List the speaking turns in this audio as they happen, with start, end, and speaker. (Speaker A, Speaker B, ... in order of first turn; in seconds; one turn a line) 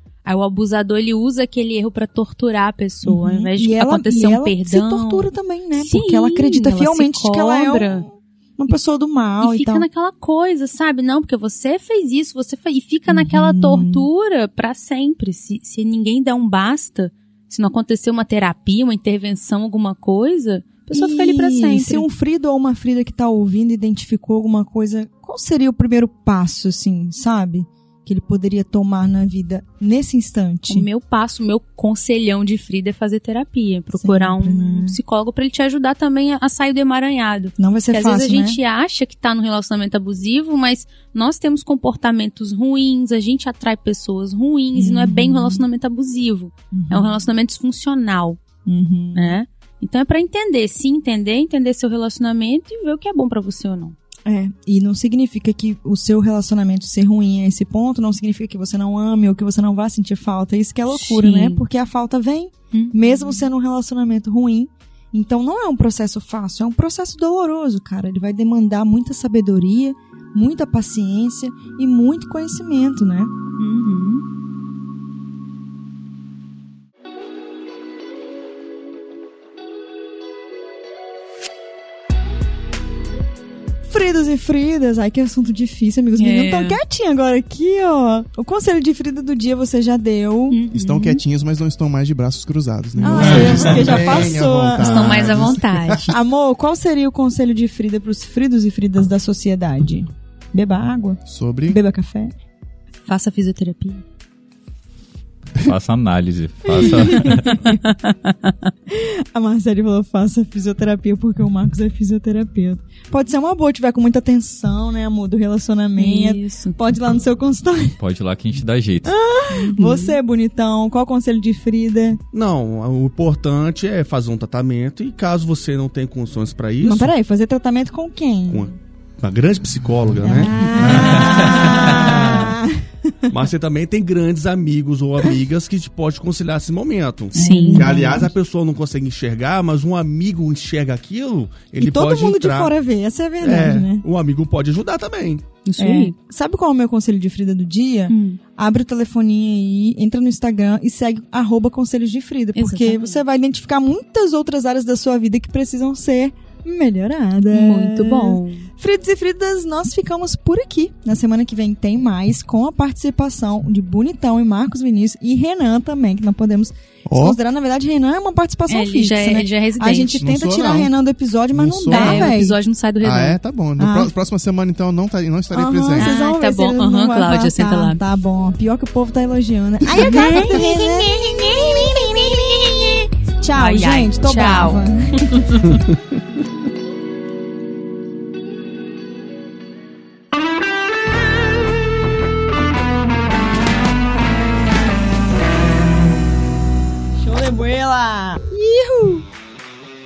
Speaker A: 0.2-8.1
Speaker B: 3.0-9.9
Speaker A: 9.4-22.1
Speaker B: 13.1-14.1
Speaker B: 20.9-30.9
Speaker A: 30.7-48.4
Speaker B: 34.0-35.0
Speaker B: 37.6-38.6
Speaker B: 44.7-45.6
Speaker B: 46.7-47.2
Speaker B: 48.6-49.4
Speaker A: 49.1-54.0
Speaker B: 54.2-73.3
Speaker A: 60.9-61.6
Speaker A: 62.7-63.4
Speaker A: 73.6-74.2
Speaker B: 83.9-90.6
Speaker A: 86.2-86.8
Speaker A: 90.5-91.2
Speaker C: 90.7-96.0
Speaker B: 93.0-95.2
Speaker A: 93.0-94.2
Speaker D: 93.2-93.9
Speaker A: 94.8-96.2
Speaker B: 96.1-102.3
Speaker C: 101.3-101.8
Speaker A: 103.0-104.0
Speaker D: 105.6-107.7
Speaker B: 106.8-107.3
Speaker A: 107.1-108.5
Speaker B: 108.9-118.0
Speaker A: 116.0-116.8
Speaker D: 118.0-119.1
Speaker B: 119.0-122.2
Speaker A: 119.5-120.2
Speaker E: 122.3-127.1
Speaker B: 126.8-128.8
Speaker E: 128.5-132.5
Speaker B: 130.2-133.3
Speaker D: 130.8-132.1
Speaker E: 133.3-142.7
Speaker A: 137.3-137.9
Speaker B: 137.3-138.3
Speaker B: 141.8-144.0
Speaker E: 143.4-145.4
Speaker A: 145.6-146.1
Speaker B: 145.8-172.6
Speaker A: 148.1-148.4
Speaker A: 152.5-153.2
Speaker A: 157.5-158.7
Speaker C: 167.1-167.4
Speaker A: 168.7-170.2
Speaker C: 170.2-170.9
Speaker C: 171.5-172.3
Speaker A: 171.9-173.4
Speaker C: 173.0-176.1
Speaker B: 173.8-174.1
Speaker B: 175.5-185.2
Speaker A: 175.9-178.0
Speaker A: 180.0-182.7
Speaker A: 183.5-185.8
Speaker B: 197.2-199.2